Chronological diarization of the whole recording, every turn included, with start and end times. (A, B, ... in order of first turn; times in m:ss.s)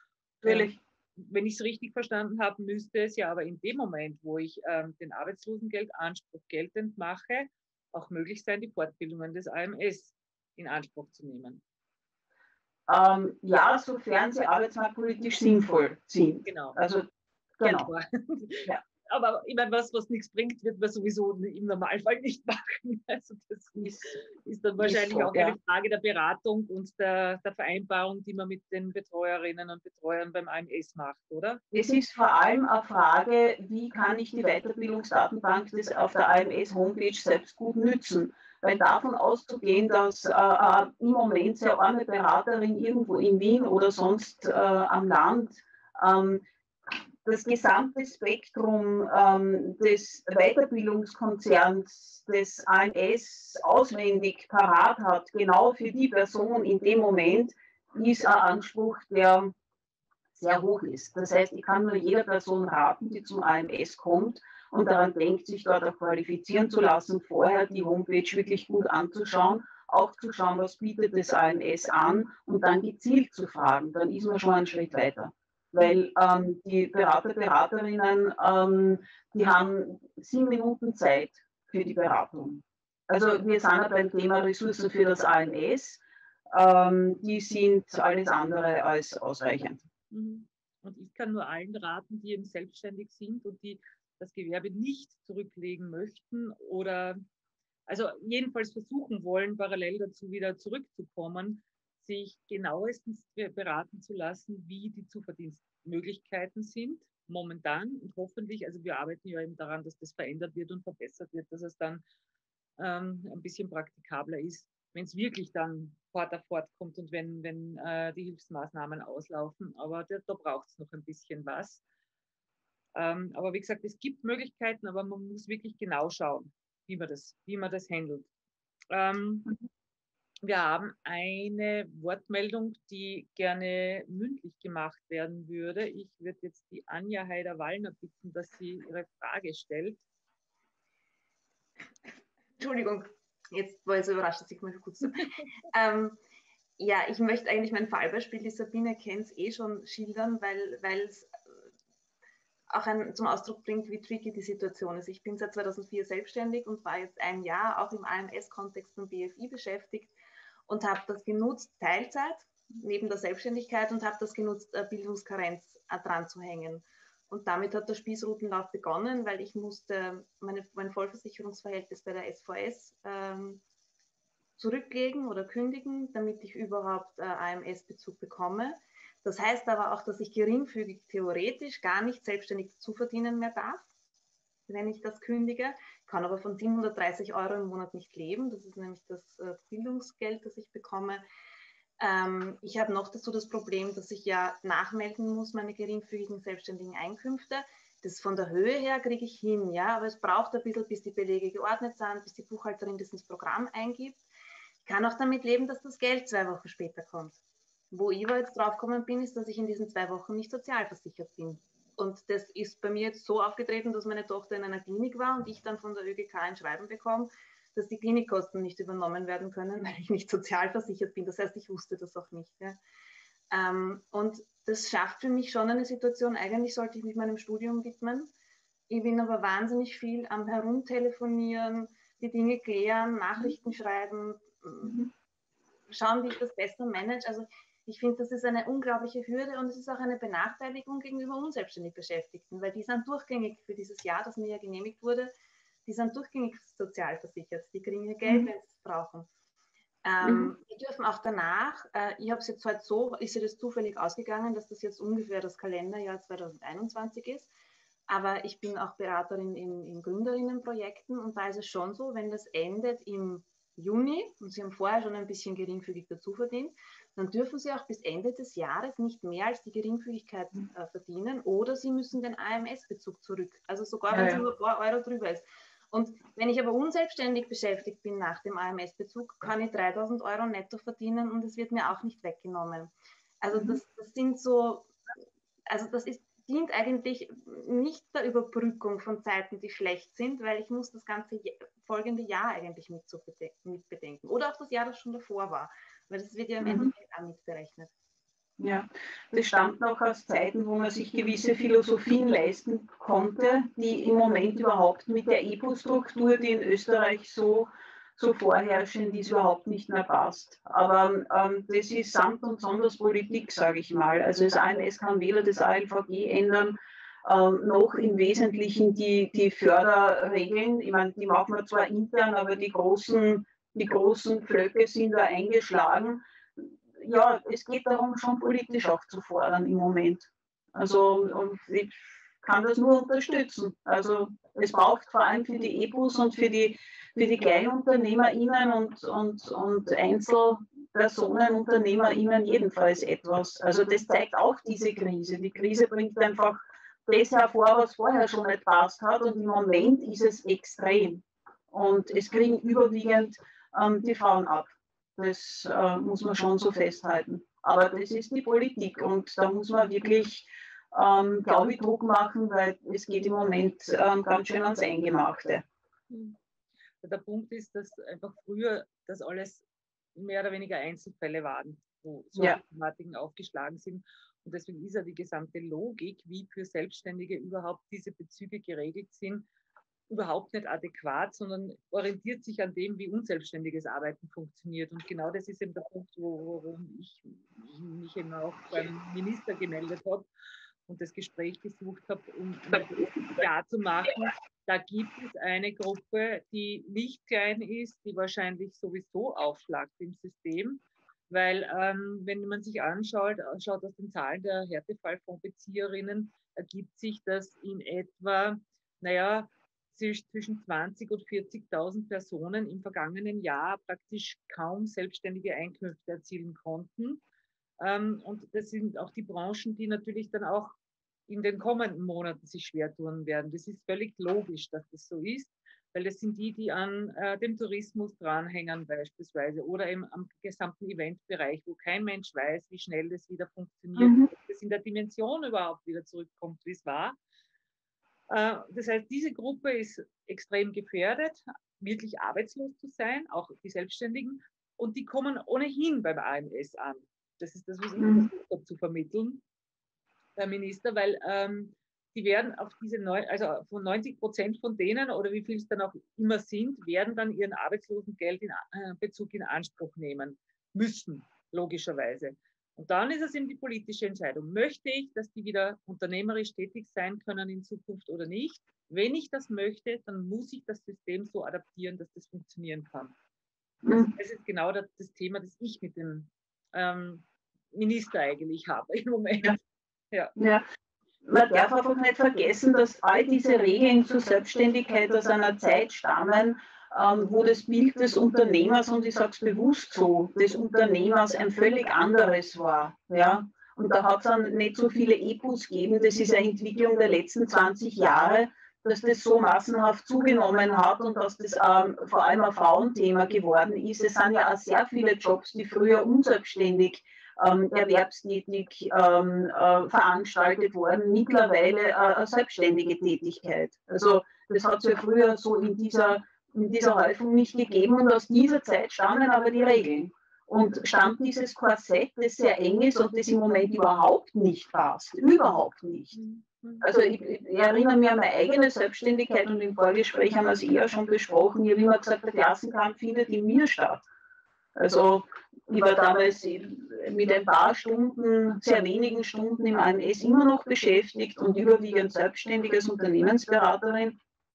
0:00.4-0:11.6 A
0:00.4-0:00.8 B
0:12.9-0:17.0 B
0:16.4-0:16.8 A
0:17.6-0:17.9 B
0:17.6-0:31.6 A
0:24.8-0:25.6 B
0:31.7-0:46.4 B
0:47.2-0:59.5 B
1:00.4-1:29.8 B
1:30.1-1:37.2 A
1:37.9-1:52.0 A
1:52.8-2:01.8 A
2:02.9-2:08.3 A
2:08.9-2:09.5 A
2:10.4-2:20.0 A
2:22.6-2:26.2 C
2:26.8-2:31.3 C
2:32.7-2:40.1 C
2:40.7-2:53.6 C
2:54.6-3:03.9 C
3:04.7-3:11.2 C
3:12.0-3:24.2 C
3:24.8-3:42.8 C
3:43.5-3:48.3 C
3:48.9-3:55.0 C
3:54.8-3:55.1 B
3:55.9-4:05.3 C
4:05.8-4:09.3 C
4:08.2-4:08.5 B
4:10.0-4:17.5 C
4:10.2-4:10.5 B
4:18.1-4:44.9 C
4:34.1-4:34.4 B
4:43.5-4:43.8 B
4:45.7-4:57.9 C
4:56.6-4:56.9 B
4:58.6-6:05.6 B
6:06.1-6:06.4 A
6:07.0-6:09.6 A
6:10.1-6:19.5 A
6:20.1-6:30.3 A
6:30.9-6:57.2 A
6:57.8-7:00.8 A
7:01.3-7:17.2 A
7:14.0-7:14.3 B
7:18.3-7:29.4 A
7:28.0-7:28.3 B
7:30.4-7:53.1 A
7:53.8-7:54.1 B
7:53.9-8:00.3 A
8:00.4-8:00.6 B
8:01.2-8:46.2 B
8:46.1-8:46.9 A
8:46.8-8:54.1 B
8:54.8-9:04.2 B